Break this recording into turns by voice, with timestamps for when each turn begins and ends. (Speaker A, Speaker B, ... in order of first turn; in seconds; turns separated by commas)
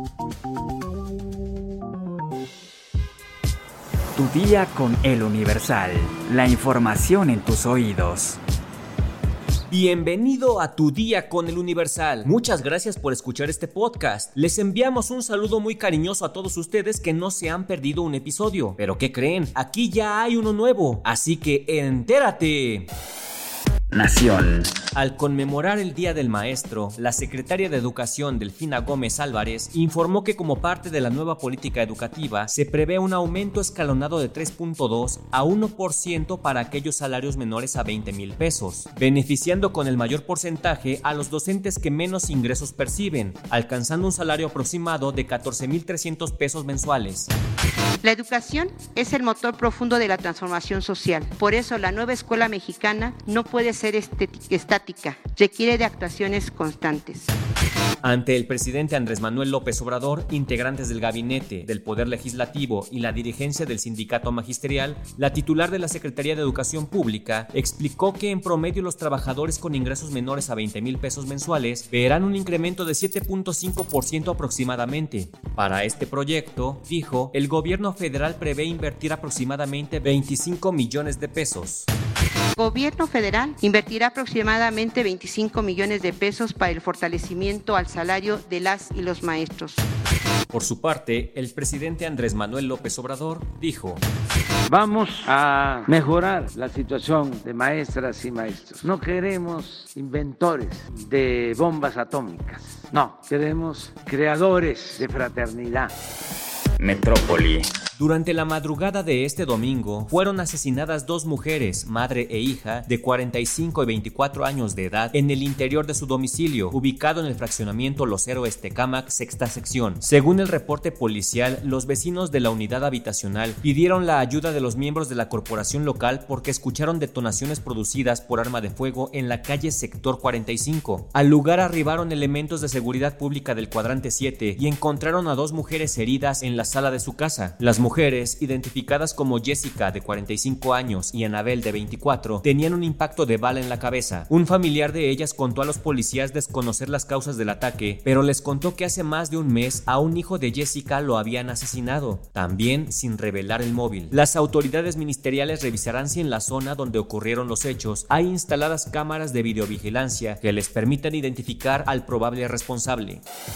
Speaker A: 4.2-8.4, Speaker B: 9.7-22.9, Speaker A: 23.9-24.6, Speaker B: 24.9-47.3, Speaker C: 48.0-57.3, Speaker B: 58.0-81.9, Speaker C: 82.5-89.8, Speaker B: 90.5-94.0, Speaker D: 94.7-105.9, Speaker A: 106.8-107.6, Speaker B: 108.0-163.2